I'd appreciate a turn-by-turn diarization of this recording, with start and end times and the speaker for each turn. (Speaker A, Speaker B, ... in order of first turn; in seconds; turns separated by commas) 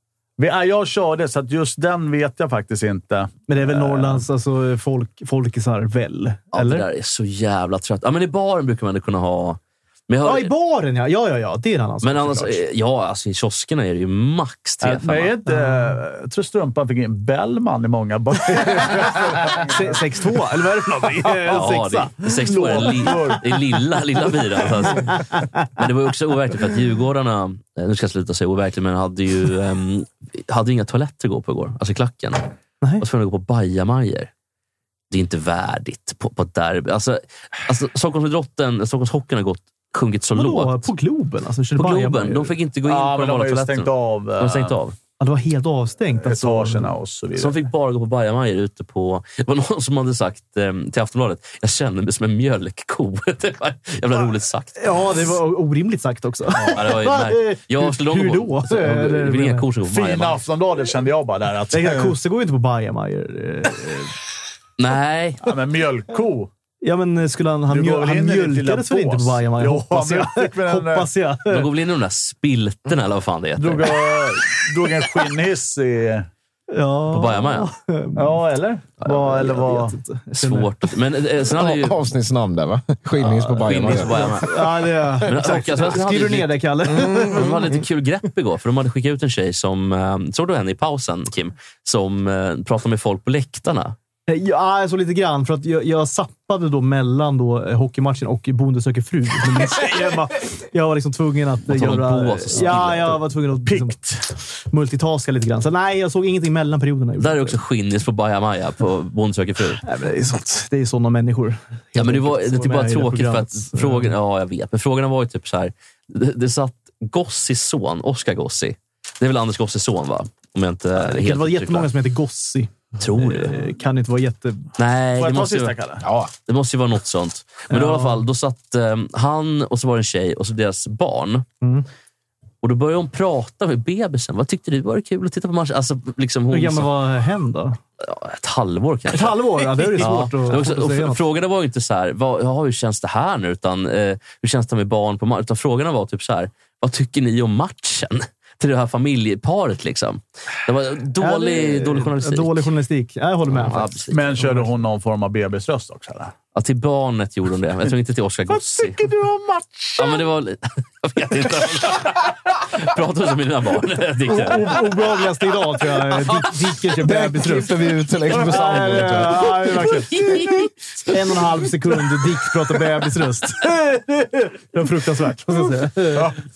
Speaker A: 0.4-4.2, Speaker B: 3.5-6.9, Speaker C: 6.5-10.5, Speaker B: 10.2-12.6, Speaker C: 12.0-15.3, Speaker A: 14.8-20.0, Speaker B: 15.5-16.0, Speaker B: 19.6-22.3, Speaker A: 20.9-21.6, Speaker C: 21.5-34.3, Speaker A: 22.3-23.5, Speaker C: 35.1-40.9, Speaker B: 40.3-42.5, Speaker C: 41.8-45.0, Speaker A: 42.8-44.8, Speaker B: 45.2-46.9, Speaker A: 46.2-47.5, Speaker C: 47.4-54.9, Speaker B: 54.8-59.6, Speaker C: 56.7-60.4, Speaker A: 59.9-62.1, Speaker B: 61.7-64.1, Speaker C: 64.8-65.5, Speaker A: 65.4-66.5, Speaker B: 66.8-71.7, Speaker A: 67.7-71.1, Speaker C: 71.5-74.0, Speaker A: 73.6-76.3, Speaker B: 76.7-78.4, Speaker C: 77.1-77.7, Speaker A: 78.2-80.0, Speaker B: 79.1-80.7, Speaker C: 80.3-82.0, Speaker D: 81.5-84.4, Speaker C: 83.4-93.9, Speaker B: 83.8-87.6, Speaker D: 87.0-87.7, Speaker B: 94.3-104.0, Speaker C: 101.7-103.2, Speaker A: 103.7-104.3, Speaker B: 104.6-107.6, Speaker C: 107.2-109.8, Speaker B: 109.8-114.1, Speaker C: 112.0-121.9, Speaker B: 121.0-124.7, Speaker C: 123.0-123.6, Speaker C: 124.8-125.7, Speaker A: 125.2-126.0, Speaker D: 126.0-126.3, Speaker C: 126.5-131.4, Speaker B: 127.7-128.2, Speaker B: 131.6-131.9, Speaker C: 132.6-136.9, Speaker B: 136.5-137.8, Speaker C: 138.0-152.7, Speaker B: 139.1-141.2, Speaker B: 151.2-154.7, Speaker C: 153.5-154.4, Speaker A: 154.1-156.3, Speaker C: 156.6-159.1, Speaker A: 158.5-160.2, Speaker C: 160.0-164.8, Speaker B: 164.2-170.5, Speaker D: 167.0-169.6, Speaker C: 170.2-170.7, Speaker B: 171.0-176.4, Speaker A: 176.1-176.4